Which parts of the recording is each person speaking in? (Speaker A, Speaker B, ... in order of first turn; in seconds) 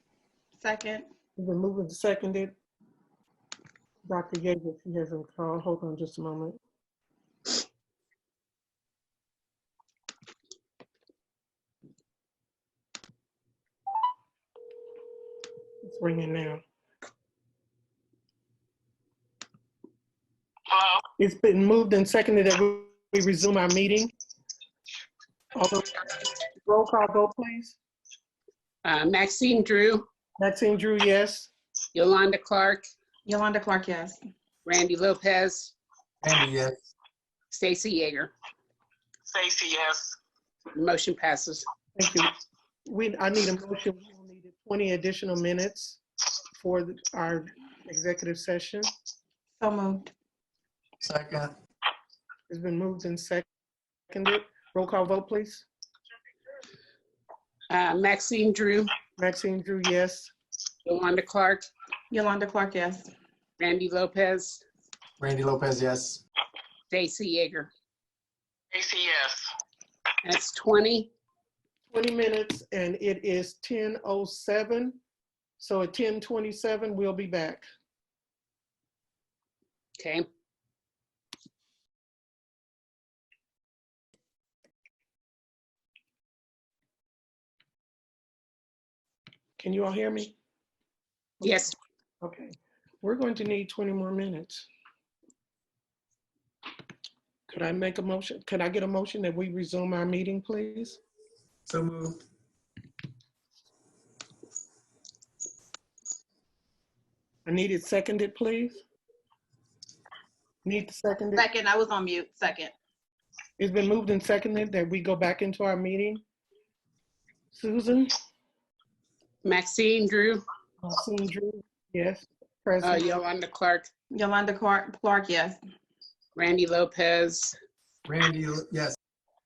Speaker A: 0.6-1.1, 33.2-34.2, 49.6-50.1, 62.1-63.1, 111.3-112.7, 124.1-125.6
Speaker B: 1.4-2.5, 4.1-6.6, 15.8-16.6, 21.2-24.1, 25.5-26.0, 26.6-27.8, 30.4-31.5, 41.9-42.3, 42.9-46.0, 46.5-48.9, 52.5-53.4, 54.1-55.7, 59.2-60.3, 71.9-75.0, 75.6-77.7, 89.6-90.3, 92.2-94.7, 97.5-101.0, 107.5-108.8, 110.6-111.5, 113.6-116.2, 117.5-118.1, 120.8-123.2
Speaker C: 20.7-21.0, 39.3-40.2, 68.7-69.5
Speaker D: 28.8-30.1, 31.9-32.8, 34.6-35.7, 37.5-38.3, 40.7-41.7, 57.7-58.9, 60.9-61.7, 63.6-64.6, 66.9-67.7, 70.2-71.1, 80.0-80.2, 91.4-91.7, 119.4-120.4, 122.8-123.9, 126.3-127.5
Speaker E: 36.2-36.9, 51.0-51.5, 65.2-66.2, 101.7-102.2, 128.1-129.0